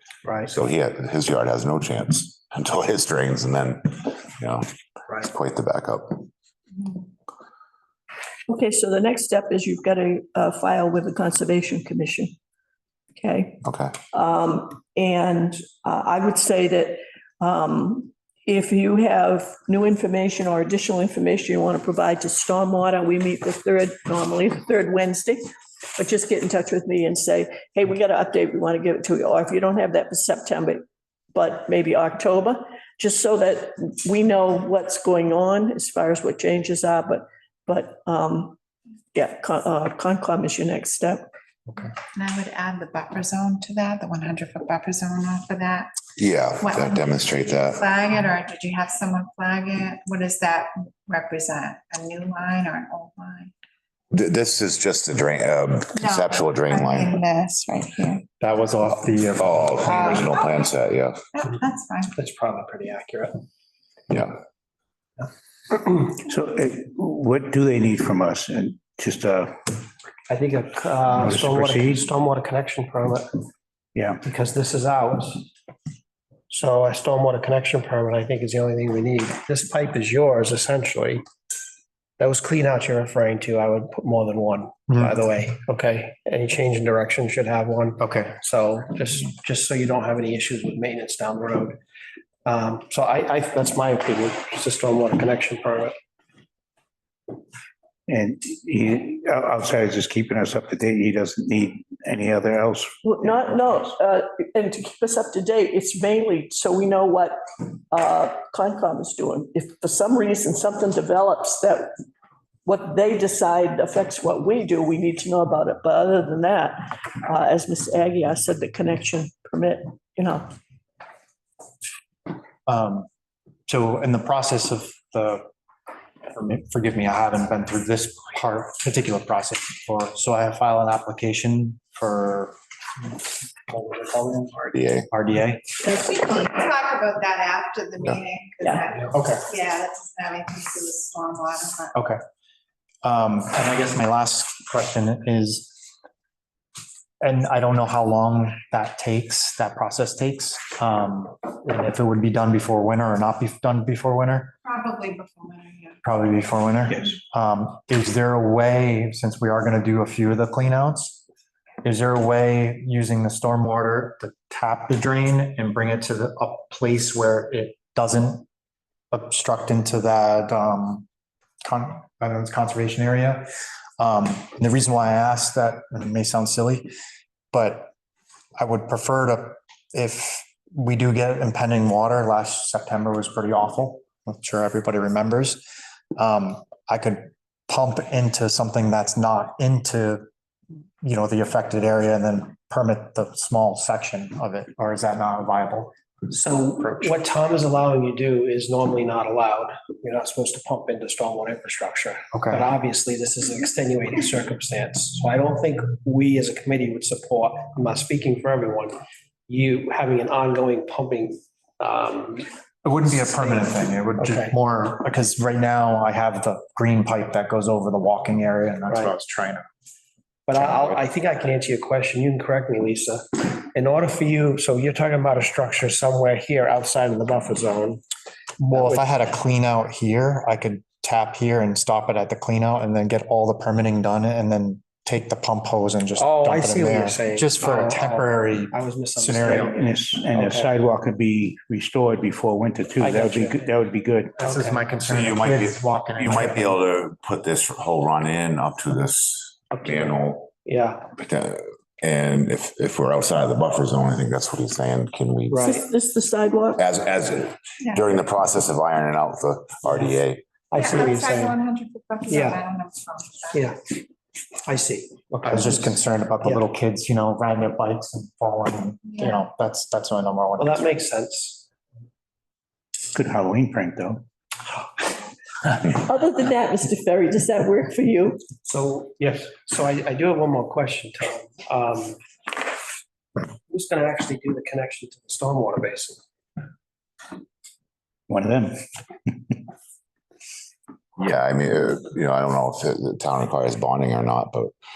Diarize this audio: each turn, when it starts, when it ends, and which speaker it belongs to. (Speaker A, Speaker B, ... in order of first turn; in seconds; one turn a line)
Speaker A: 0.4-4.7
Speaker A: 5.2-6.2
Speaker B: 8.5-12.3
Speaker B: 13.2-25.4
Speaker A: 13.6-13.9
Speaker B: 25.9-38.5
Speaker B: 39.1-41.2
Speaker C: 41.8-45.9
Speaker A: 46.2-47.8
Speaker C: 46.6-53.5
Speaker A: 54.1-57.2
Speaker C: 55.9-58.2
Speaker D: 58.4-60.3
Speaker A: 59.4-61.2
Speaker C: 60.1-60.4
Speaker C: 61.3-62.1
Speaker E: 62.1-63.3
Speaker F: 66.1-69.8
Speaker E: 70.3-73.5
Speaker F: 71.2-72.0
Speaker F: 73.9-74.2
Speaker E: 74.2-75.5
Speaker E: 76.5-81.2
Speaker E: 82.2-91.8
Speaker D: 84.9-85.2
Speaker D: 88.0-88.3
Speaker E: 92.5-95.9
Speaker F: 98.1-103.8
Speaker B: 103.0-111.9
Speaker B: 112.6-120.5
Speaker D: 122.7-123.1
Speaker D: 123.7-125.5
Speaker D: 126.3-135.7
Speaker A: 134.7-135.1
Speaker C: 135.8-141.9
Speaker B: 138.6-138.9
Speaker D: 139.1-139.5
Speaker D: 143.0-145.8
Speaker D: 147.2-154.5
Speaker C: 154.6-156.0
Speaker D: 156.0-161.2
Speaker D: 161.8-168.4
Speaker D: 169.1-171.1
Speaker D: 171.6-173.5
Speaker D: 174.0-176.9
Speaker D: 177.5-177.9
Speaker D: 178.6-185.6
Speaker D: 186.2-190.2
Speaker D: 191.0-195.9
Speaker E: 196.3-208.9
Speaker D: 196.8-197.2
Speaker D: 202.3-202.7
Speaker E: 209.5-212.4
Speaker D: 212.8-219.6
Speaker E: 213.1-214.5
Speaker E: 220.5-228.0
Speaker E: 228.6-229.1
Speaker D: 228.7-239.8
Speaker E: 236.2-240.7
Speaker F: 239.4-244.4
Speaker E: 243.0-243.7
Speaker E: 244.4-244.8
Speaker D: 244.4-246.7
Speaker A: 245.1-250.6
Speaker E: 249.8-250.1
Speaker E: 250.6-251.1
Speaker A: 251.2-255.8
Speaker E: 255.5-255.8
Speaker B: 255.6-256.8
Speaker A: 256.8-260.4
Speaker E: 260.7-261.6
Speaker C: 260.7-263.7
Speaker E: 262.3-262.6
Speaker E: 263.5-263.9
Speaker E: 264.6-265.9
Speaker D: 265.4-270.9
Speaker C: 269.1-269.4
Speaker E: 270.6-271.6
Speaker F: 273.1-274.2
Speaker B: 275.9-278.4
Speaker E: 278.6-282.2
Speaker E: 283.7-286.2
Speaker F: 288.3-289.5
Speaker A: 291.2-294.7